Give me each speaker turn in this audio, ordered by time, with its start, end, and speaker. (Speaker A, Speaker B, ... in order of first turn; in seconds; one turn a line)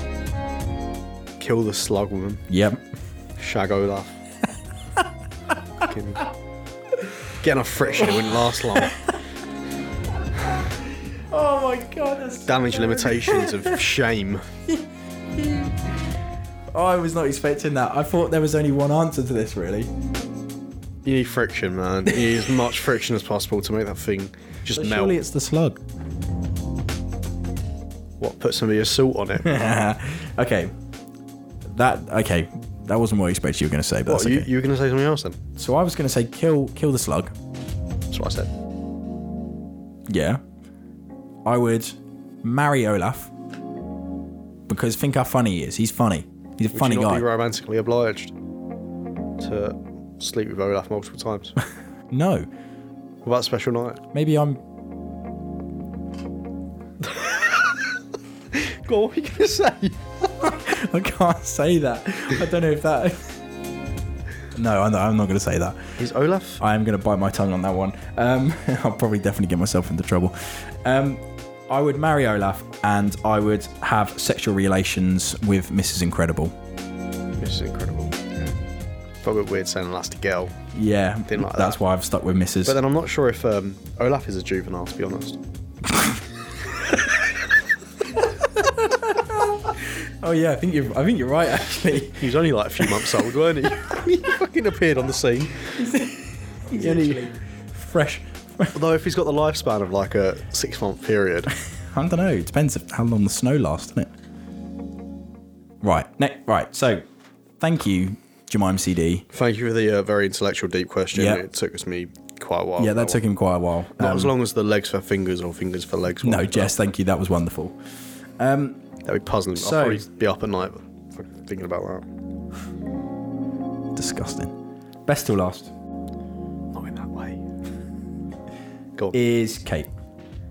Speaker A: 1.4-2.5
Speaker B: 2.5-2.8
Speaker A: 3.4-4.2
Speaker A: 5.8-6.2
Speaker A: 7.4-9.0
Speaker B: 8.1-9.2
Speaker B: 10.4-13.8
Speaker A: 12.4-14.5
Speaker B: 14.7-15.8
Speaker B: 16.7-19.9
Speaker A: 21.0-25.2
Speaker B: 24.7-25.8
Speaker A: 28.2-29.9
Speaker B: 29.4-30.7
Speaker B: 31.7-34.5
Speaker A: 34.1-35.4
Speaker B: 35.6-37.3
Speaker A: 38.1-38.5
Speaker B: 40.1-40.4
Speaker B: 41.5-43.3
Speaker B: 44.7-47.3
Speaker A: 46.7-48.3
Speaker A: 49.4-51.6
Speaker B: 52.1-52.5
Speaker A: 53.2-54.0
Speaker B: 54.1-54.6
Speaker A: 57.0-58.0
Speaker A: 58.5-60.3
Speaker B: 60.4-63.3
Speaker B: 64.5-66.0
Speaker A: 66.0-66.6
Speaker B: 66.6-76.5
Speaker A: 77.4-78.5
Speaker A: 79.2-80.5
Speaker B: 80.7-82.8
Speaker A: 81.3-81.8
Speaker A: 82.6-85.4
Speaker B: 88.4-93.0
Speaker A: 92.2-95.8
Speaker B: 95.7-98.8
Speaker A: 96.7-97.3
Speaker A: 98.7-101.5
Speaker B: 101.7-104.1
Speaker B: 105.8-107.0
Speaker B: 107.6-109.3
Speaker A: 109.3-113.2
Speaker B: 111.1-111.4
Speaker B: 112.8-114.3
Speaker A: 114.0-116.7
Speaker B: 116.2-117.8
Speaker B: 118.4-118.8
Speaker A: 119.0-122.1
Speaker B: 119.6-120.0
Speaker B: 124.0-124.5
Speaker B: 125.1-125.7
Speaker A: 126.7-127.5
Speaker B: 129.1-129.9